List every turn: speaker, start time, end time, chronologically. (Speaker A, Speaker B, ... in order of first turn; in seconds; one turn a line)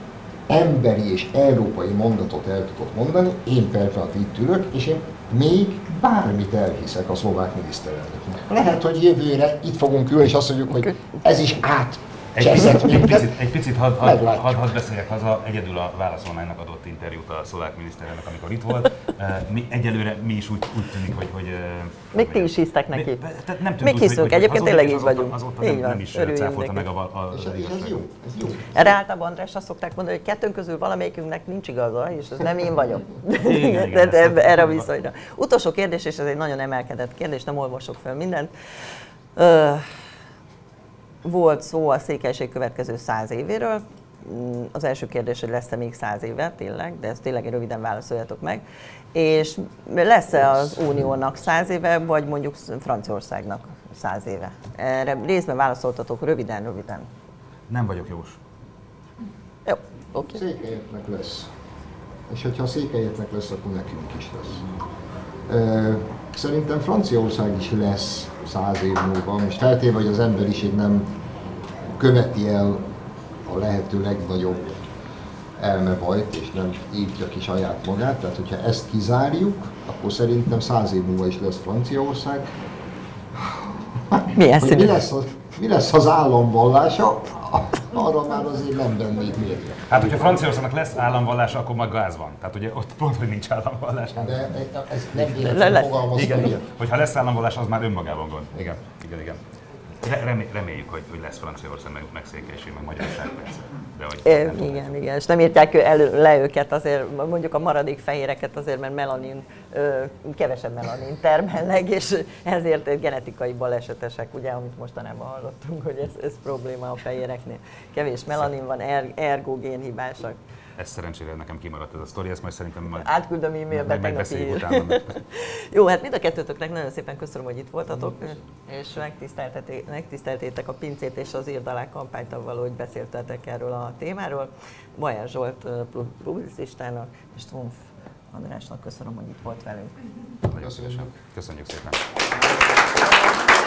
Speaker A: 0.5-13.4
Speaker B: 12.3-28.0
Speaker A: 14.0-14.7
Speaker C: 22.1-23.2
Speaker C: 23.8-26.9
Speaker A: 27.3-28.8
Speaker C: 28.7-38.5
Speaker B: 33.3-34.9
Speaker C: 39.4-39.8
Speaker C: 41.2-48.6
Speaker C: 49.1-57.1
Speaker B: 57.7-58.4
Speaker C: 59.6-60.4
Speaker A: 60.3-61.5
Speaker A: 62.3-64.6
Speaker A: 65.5-71.1
Speaker A: 71.9-72.9
Speaker A: 73.5-74.8
Speaker A: 75.6-82.5
Speaker A: 83.3-90.5
Speaker C: 84.3-85.0
Speaker B: 89.9-94.6
Speaker A: 94.1-96.6
Speaker B: 95.3-99.4
Speaker C: 95.3-96.2
Speaker B: 100.0-104.9
Speaker C: 104.2-120.4
Speaker B: 120.8-123.1
Speaker C: 122.9-140.0
Speaker B: 123.7-125.2
Speaker B: 140.4-142.1
Speaker A: 140.6-141.1